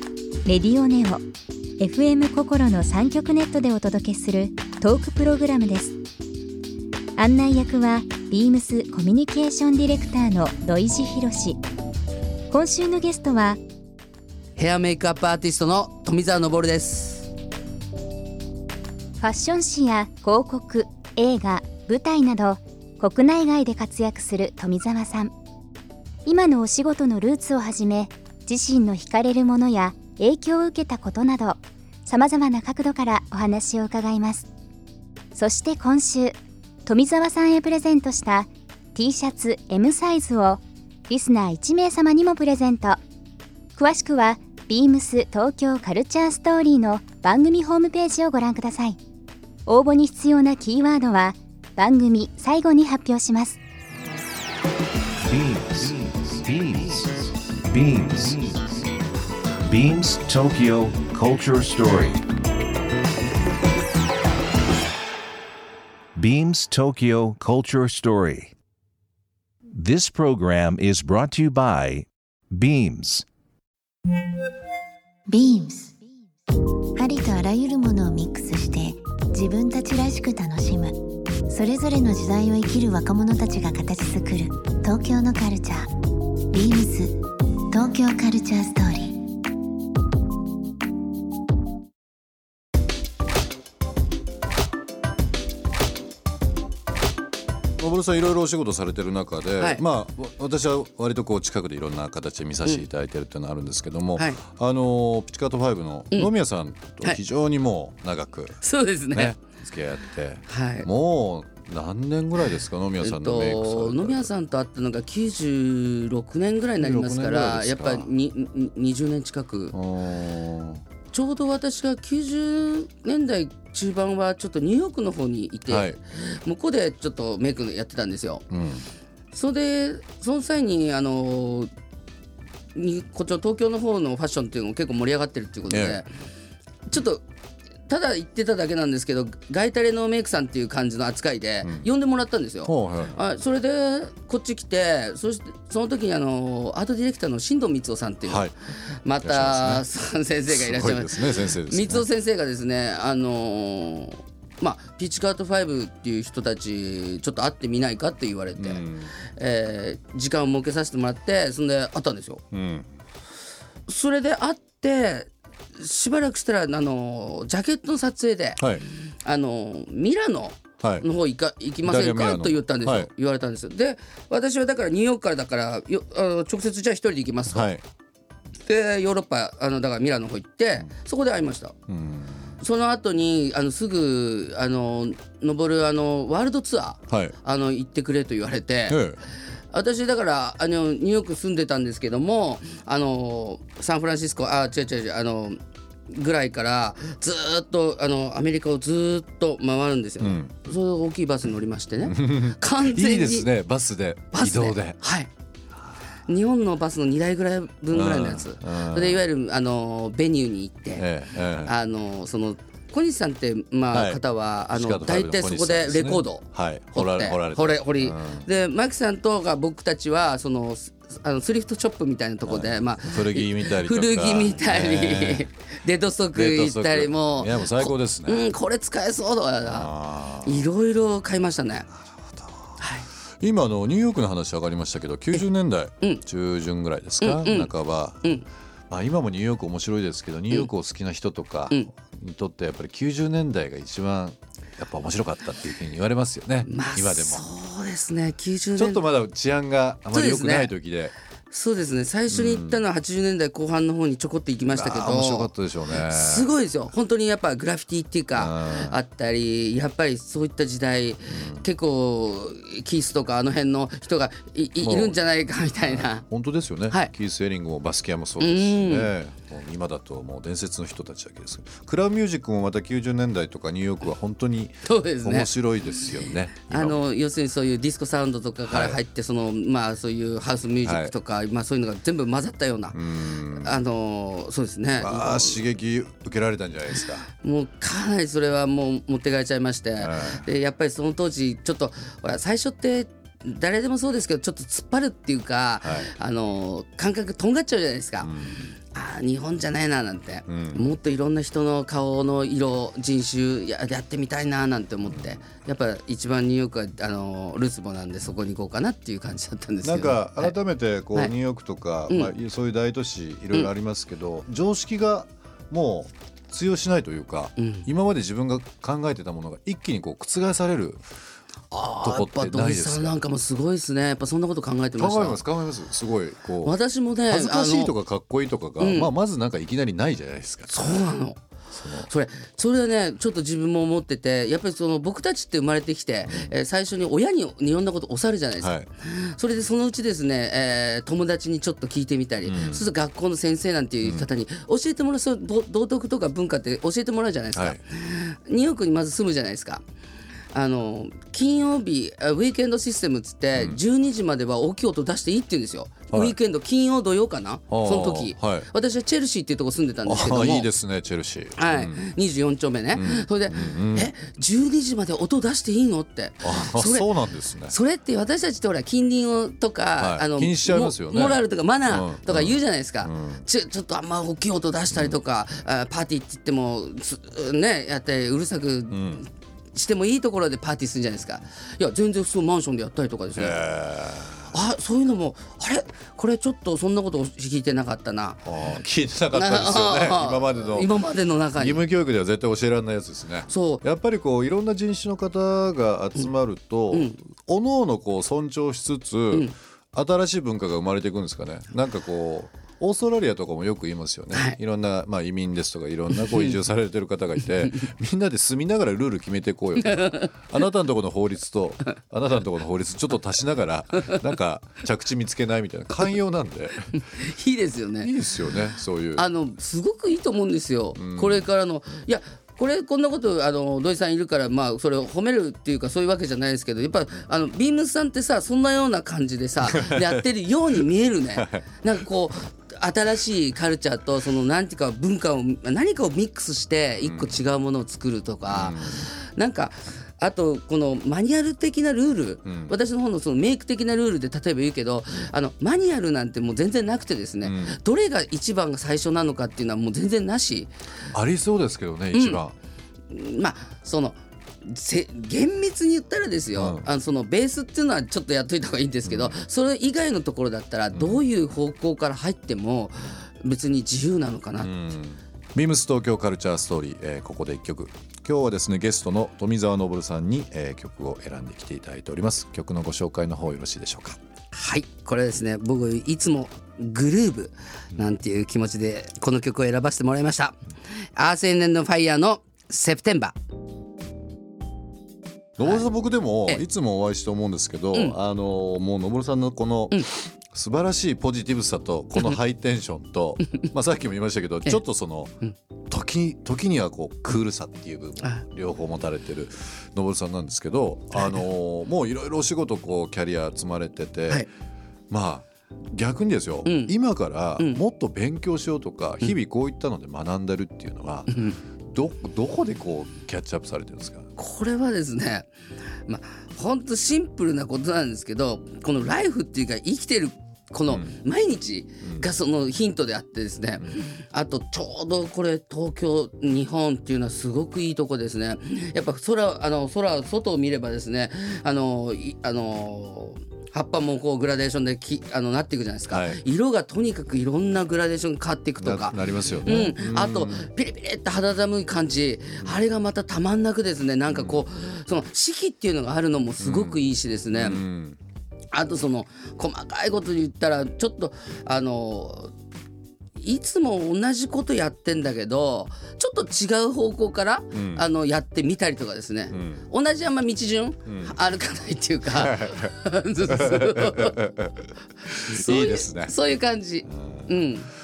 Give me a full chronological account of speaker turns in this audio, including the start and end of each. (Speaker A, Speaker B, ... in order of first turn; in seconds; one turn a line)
Speaker A: 0.5-1.2
Speaker A: 1.8-6.0
Speaker A: 7.2-11.6
Speaker A: 12.5-13.6
Speaker B: 14.6-17.3
Speaker A: 19.2-25.3
Speaker A: 26.2-34.5
Speaker A: 35.3-43.0
Speaker A: 43.8-49.0
Speaker A: 49.7-53.6
Speaker C: 55.2-58.9
Speaker C: 59.7-62.2
Speaker C: 66.2-68.5
Speaker C: 69.8-73.2
Speaker D: 75.3-76.0
Speaker D: 77.0-85.9
Speaker D: 86.5-87.2
Speaker D: 87.7-89.2
Speaker E: 97.8-114.3
Speaker B: 108.6-109.4
Speaker B: 110.5-110.9
Speaker B: 113.0-119.8
Speaker E: 116.8-118.1
Speaker E: 119.7-120.8
Speaker B: 121.1-128.4
Speaker E: 125.7-126.0
Speaker E: 128.5-128.9
Speaker B: 129.3-131.7
Speaker B: 132.8-136.1
Speaker E: 135.7-136.0
Speaker B: 136.9-137.2
Speaker B: 137.9-148.5
Speaker E: 141.6-141.9
Speaker E: 142.7-143.2
Speaker E: 148.2-148.6
Speaker B: 149.0-162.4
Speaker E: 149.2-149.8
Speaker E: 150.5-152.1
Speaker E: 158.6-159.2
Speaker E: 162.5-162.9
Speaker B: 163.9-168.7
Speaker E: 168.6-168.8
Speaker B: 169.2-177.7
Speaker E: 170.8-171.1
Speaker E: 171.8-173.1
Speaker E: 177.5-177.8
Speaker B: 178.7-181.8
Speaker E: 181.9-182.6
Speaker B: 182.6-189.0
Speaker E: 187.1-187.3
Speaker E: 188.9-189.2
Speaker B: 189.7-195.6
Speaker B: 196.1-203.5
Speaker E: 200.2-200.7
Speaker E: 202.0-205.0
Speaker B: 204.3-205.3
Speaker B: 206.3-211.1
Speaker E: 207.9-209.2
Speaker E: 211.0-211.7
Speaker B: 211.6-229.9
Speaker E: 213.9-218.5
Speaker E: 222.4-225.4
Speaker E: 226.3-228.4
Speaker E: 229.7-230.7
Speaker B: 230.4-231.9
Speaker E: 232.3-232.7
Speaker B: 232.8-233.1
Speaker E: 233.4-238.4
Speaker B: 237.2-237.7
Speaker E: 238.9-247.5
Speaker B: 246.7-249.0
Speaker E: 248.8-251.2
Speaker B: 250.1-250.7
Speaker B: 251.5-267.1
Speaker E: 252.3-252.8
Speaker E: 254.7-256.5
Speaker E: 258.3-259.0
Speaker E: 261.3-261.6
Speaker E: 264.8-265.2
Speaker E: 265.8-277.0
Speaker B: 268.4-269.1
Speaker B: 274.9-275.5
Speaker B: 276.6-283.0
Speaker E: 278.7-279.0
Speaker E: 280.8-281.1
Speaker E: 282.9-283.8
Speaker B: 283.6-285.6
Speaker E: 285.0-287.3
Speaker B: 287.4-298.3
Speaker E: 290.0-290.4
Speaker E: 295.8-296.1
Speaker E: 298.2-298.7
Speaker B: 298.9-310.6
Speaker E: 300.5-300.9
Speaker E: 305.1-305.5
Speaker E: 309.8-321.0
Speaker B: 312.1-312.3
Speaker B: 317.6-317.9
Speaker B: 321.7-325.4
Speaker E: 322.0-323.2
Speaker E: 325.0-326.8
Speaker B: 326.6-327.9
Speaker E: 327.3-331.0
Speaker B: 328.8-329.1
Speaker B: 330.7-331.4
Speaker E: 331.7-332.1
Speaker B: 332.0-349.9
Speaker E: 338.6-338.9
Speaker E: 342.4-342.9
Speaker B: 350.5-360.7
Speaker E: 353.6-353.8
Speaker E: 357.7-358.7
Speaker E: 360.1-362.0
Speaker B: 361.6-367.1
Speaker E: 362.9-364.1
Speaker E: 366.4-367.8
Speaker B: 367.7-383.6
Speaker E: 370.0-373.4
Speaker E: 378.9-379.2
Speaker E: 383.3-384.6
Speaker B: 384.5-388.5
Speaker E: 388.5-390.9
Speaker B: 389.3-391.8
Speaker E: 391.6-416.9
Speaker B: 393.5-393.8
Speaker B: 396.9-397.2
Speaker B: 404.3-404.6
Speaker B: 406.2-406.6
Speaker B: 409.9-410.3
Speaker B: 417.2-418.1
Speaker E: 418.0-419.3
Speaker B: 419.2-450.7
Speaker E: 421.0-421.5
Speaker E: 429.7-430.2
Speaker E: 431.4-431.8
Speaker E: 437.0-437.4
Speaker E: 438.5-439.1
Speaker E: 442.5-442.7
Speaker E: 447.4-447.8
Speaker E: 451.1-452.6
Speaker B: 452.1-452.4
Speaker B: 453.1-464.7
Speaker E: 456.6-456.9
Speaker E: 459.1-459.4
Speaker E: 460.9-461.2
Speaker E: 464.6-474.2
Speaker B: 474.5-480.6
Speaker B: 481.2-483.4
Speaker E: 485.6-495.3
Speaker B: 485.6-485.9
Speaker E: 495.9-504.5
Speaker B: 501.1-501.4
Speaker E: 505.1-511.4
Speaker B: 506.7-506.9
Speaker B: 511.3-511.6
Speaker E: 511.9-514.3
Speaker B: 514.4-515.5
Speaker B: 516.1-547.8
Speaker E: 520.9-521.2
Speaker E: 536.1-536.4
Speaker E: 538.8-540.7
Speaker E: 544.3-544.6
Speaker E: 546.6-548.2
Speaker B: 548.7-552.5
Speaker B: 553.4-564.4
Speaker E: 557.7-558.0
Speaker E: 559.5-559.9
Speaker E: 561.1-561.3
Speaker E: 562.3-562.9
Speaker E: 563.5-566.4
Speaker B: 565.5-567.9
Speaker E: 567.0-567.6